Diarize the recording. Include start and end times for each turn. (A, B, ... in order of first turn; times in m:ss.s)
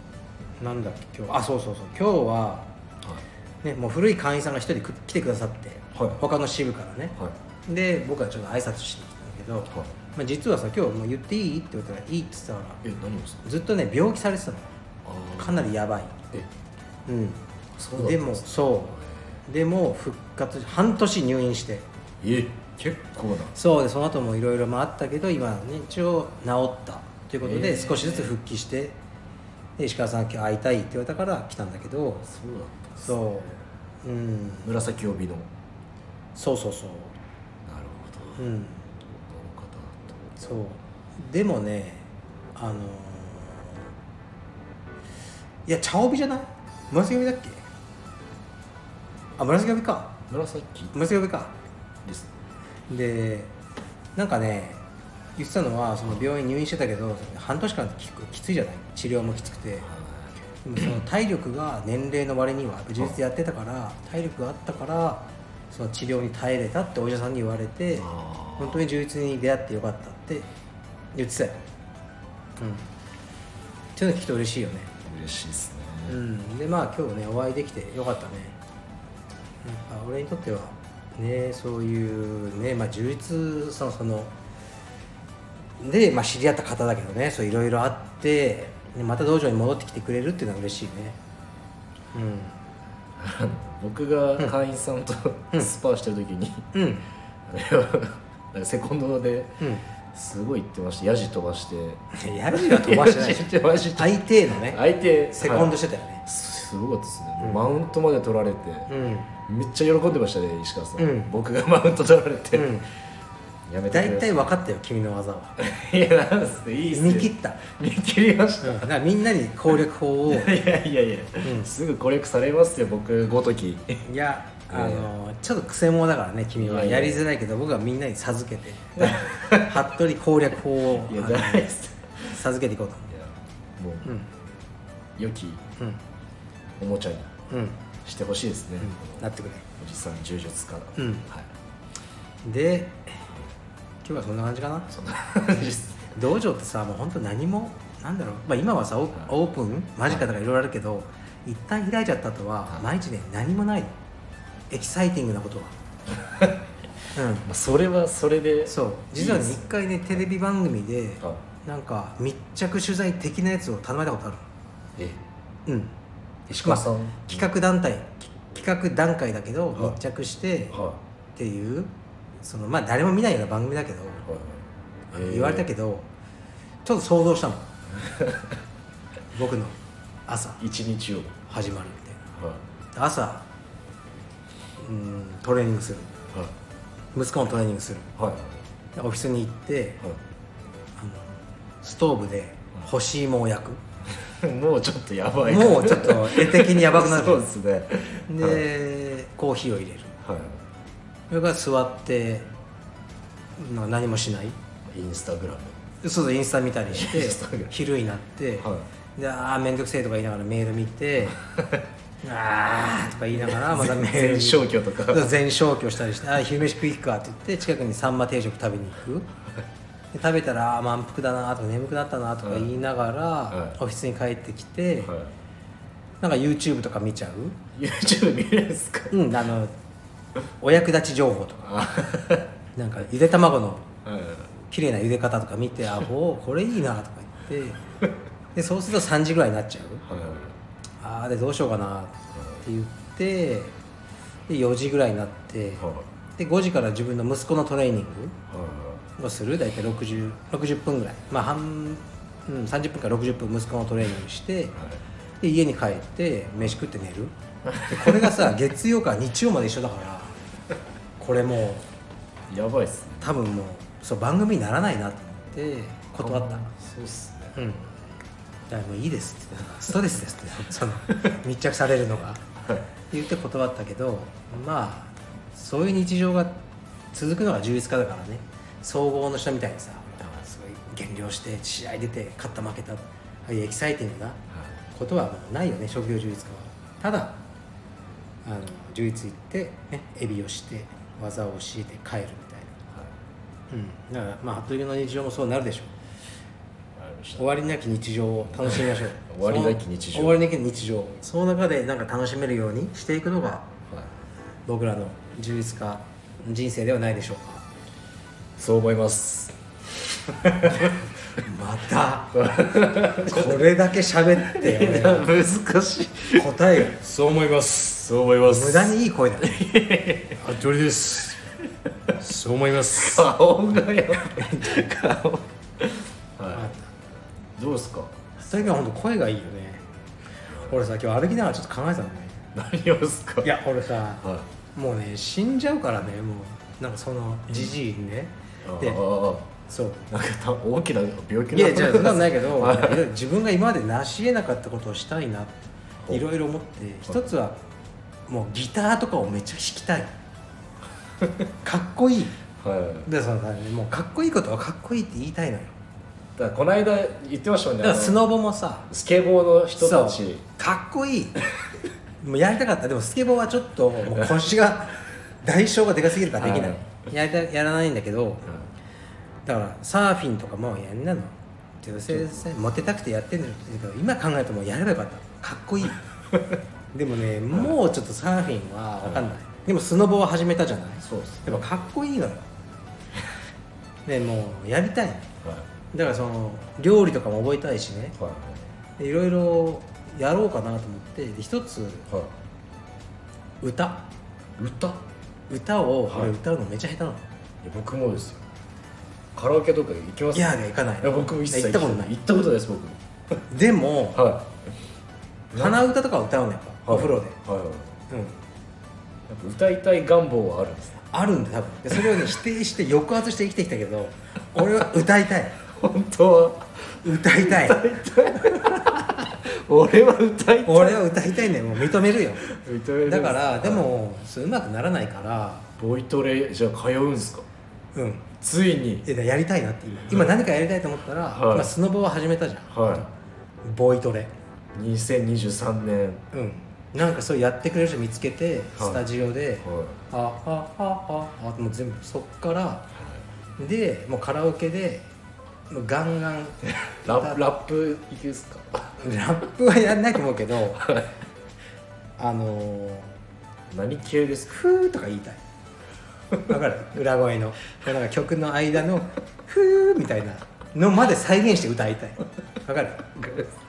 0:00.6-0:02.7 A
0:03.6-0:07.2 A
0:05.9-0:06.2 B
0:07.7-0:12.8 A
0:12.8-0:13.4 B
0:13.4-0:14.7 A
0:15.0-0:15.7 B
0:15.4-0:16.2 A
0:17.1-0:17.4 A
0:17.8-0:19.4 B
0:17.9-0:21.8 A
0:22.2-0:23.6 B
0:23.5-0:29.0 A
0:27.4-0:28.3 B
0:29.8-0:32.2 A
0:32.2-0:33.1 B
0:33.0-0:34.7 A
0:34.6-0:35.5 B
0:36.4-0:37.1 A
0:37.6-0:38.5 B
0:38.4-0:38.8 A
0:39.0-0:40.3 B
0:40.4-0:43.8 A
0:45.6-0:47.6 A
0:49.4-0:50.2 A
0:50.3-0:50.9 B
0:50.9-0:51.5 A
0:52.0-0:52.3 B
0:52.9-0:53.5 A
0:54.2-0:54.8 A
0:55.4-0:59.9 A
0:59.8-1:00.4 B
1:00.6-1:10.5 A
1:07.9-1:08.8 B
1:11.1-1:11.6 A
1:12.6-1:12.9 A
1:14.0-1:14.9 A
1:15.0-1:16.2 B
1:16.1-1:18.6 A
1:19.6-1:24.3 A
1:25.8-1:31.2 A
1:32.1-1:32.6 A
1:33.2-1:36.7 B
1:36.7-1:37.0 A
1:37.5-1:39.6 B
1:39.6-1:39.8 A
1:40.1-1:48.9 B
1:42.1-1:44.8 A
1:45.3-1:46.2 A
1:48.9-1:49.3 A
1:49.4-1:52.8 B
1:51.0-1:51.3 A
1:52.5-1:52.9 A
1:53.7-1:54.5 B
1:53.9-1:55.6 A
1:55.6-1:58.9 B
1:56.9-1:57.6 A
1:58.6-2:00.5 A
2:00.3-2:04.0 B
2:01.4-2:01.7 A
2:04.0-2:11.7 A
2:04.7-2:05.1 B
2:06.6-2:07.2 B
2:09.0-2:09.8 B
2:10.9-2:12.4 B
2:12.3-2:13.1 A
2:13.1-2:14.1 B
2:15.2-2:15.6 B
2:16.8-2:17.3 B
2:17.5-2:17.8 A
2:18.0-2:19.2 B
2:18.8-2:19.6 A
2:19.8-2:21.5 B
2:21.0-2:21.3 A
2:22.4-2:23.3 A
2:24.0-2:24.9 A
2:24.9-2:26.1 B
2:26.1-2:33.9 A
2:34.7-2:35.7 A
2:36.2-2:36.6 B
2:37.1-2:37.5 A
2:37.4-2:39.7 B
2:38.7-2:44.4 A
2:45.0-2:45.2 B
2:45.7-2:45.9 A
2:46.5-2:47.4 B
2:46.5-2:50.8 A
2:50.7-2:51.0 B
2:51.4-2:51.9 A
2:52.4-2:54.2 A
2:54.2-2:55.6 B
2:55.1-2:56.1 A
2:56.8-2:57.7 A
2:57.9-2:58.6 B
2:59.3-3:00.6 A
3:00.6-3:01.4 B
3:01.5-3:02.2 A
3:02.3-3:02.6 B
3:02.9-3:03.4 A
3:04.8-3:06.1 A
3:07.1-3:08.1 A
3:08.2-3:08.6 B
3:09.0-3:10.0 A
3:11.0-3:13.8 A
3:14.2-3:18.6 B
3:15.4-3:17.4 A
3:18.3-3:20.1 A
3:20.2-3:20.6 B
3:21.3-3:22.5 A
3:23.6-3:24.6 A
3:24.8-3:25.8 B
3:26.0-3:31.4 A
3:26.9-3:27.7 B
3:28.6-3:28.9 B
3:31.4-3:31.8 B
3:32.2-3:39.3 A
3:33.3-3:35.3 B
3:40.1-3:45.1 A
3:42.4-3:42.7 B
3:43.5-3:43.8 B
3:45.0-3:45.3 B
3:46.2-3:47.6 A
3:47.7-3:49.2 B
3:49.1-3:49.7 A
3:50.6-3:51.7 A
3:51.6-3:52.5 B
3:52.7-3:53.9 A
3:54.0-3:54.5 B
3:54.7-3:57.8 A
3:58.5-4:00.0 A
4:00.0-4:00.6 B
4:01.0-4:03.7 A
4:02.3-4:02.6 B
4:04.5-4:08.4 A
4:05.8-4:06.1 B
4:08.5-4:09.0 B
4:09.2-4:14.7 A
4:14.7-4:15.0 B
4:15.4-4:17.3 A
4:17.6-4:18.5 B
4:17.8-4:20.4 A
4:21.2-4:21.9 A
4:22.5-4:23.3 B
4:23.2-4:26.7 A
4:26.2-4:27.7 B
4:27.6-4:27.8 A
4:28.7-4:32.4 A
4:33.1-4:36.6 A
4:37.1-4:44.4 A
4:44.5-4:44.8 B
4:44.9-4:47.4 A
4:48.4-4:52.7 A
4:53.7-4:55.9 A
4:57.0-4:57.4 B
4:57.4-5:03.7 A
4:58.6-5:00.4 B
5:04.7-5:07.7 A
5:08.6-5:09.6 B
5:10.4-5:11.0 B
5:10.5-5:15.3 A
5:12.3-5:13.6 B
5:14.4-5:16.5 B
5:16.3-5:17.9 A
5:17.8-5:20.4 B
5:18.4-5:19.6 A
5:20.4-5:21.4 A
5:22.2-5:23.2 A
5:22.8-5:26.7 B
5:24.3-5:24.8 A
5:26.5-5:26.8 A
5:27.6-5:28.3 B
5:28.4-5:29.8 A
5:30.6-5:32.4 A
5:32.5-5:33.5 B
5:33.4-5:39.0 A
5:34.2-5:34.5 B
5:38.6-5:39.5 B
5:39.7-5:40.0 A
5:40.1-5:43.0 B
5:41.5-5:47.6 A
5:48.3-5:50.1 A
5:51.6-5:52.4 A
5:52.6-5:53.1 B
5:53.0-5:55.7 A
5:56.4-5:58.2 B
5:57.8-5:58.9 A
5:58.9-6:00.4 B
5:59.8-6:01.4 A
6:02.2-6:08.5 A
6:06.4-6:06.8 B
6:09.4-6:16.0 A
6:16.3-6:16.6 B
6:16.9-6:22.5 A
6:19.0-6:19.3 B
6:21.0-6:21.6 B
6:24.1-6:25.3 A
6:25.4-6:25.7 B
6:25.9-6:28.2 A
6:28.2-6:28.6 B
6:29.0-6:32.1 A
6:33.6-6:34.0 A
6:34.6-6:35.0 B
6:35.5-6:37.2 A
6:37.6-6:38.5 B
6:39.3-6:43.0 B
6:40.3-6:42.1 A
6:43.5-6:44.2 A
6:44.1-6:44.5 B
6:45.5-6:45.8 B
6:45.5-6:47.4 A
6:46.9-6:47.9 B
6:48.1-6:48.4 A
6:49.3-6:51.0 B
6:51.1-6:55.6 A
6:55.6-7:01.0 B
6:57.0-6:57.8 A
7:00.6-7:02.5 A
7:02.4-7:03.9 B
7:03.0-7:05.7 A
7:05.8-7:07.4 B
7:07.9-7:08.3 A
7:08.4-7:09.1 B
7:09.0-7:13.1 A
7:11.3-7:11.7 B
7:12.7-7:13.0 B
7:13.6-7:14.3 A
7:14.7-7:16.2 B
7:16.3-7:22.9 A
7:18.8-7:19.0 B
7:19.6-7:20.0 B
7:23.0-7:23.2 B
7:23.6-7:25.1 A
7:25.7-7:27.4 A
7:26.6-7:29.0 B
7:29.0-7:30.8 A
7:30.8-7:31.1 B
7:32.2-7:33.1 A
7:33.7-7:34.6 B
7:34.5-7:35.4 A
7:36.4-7:43.1 A
7:43.2-7:43.5 B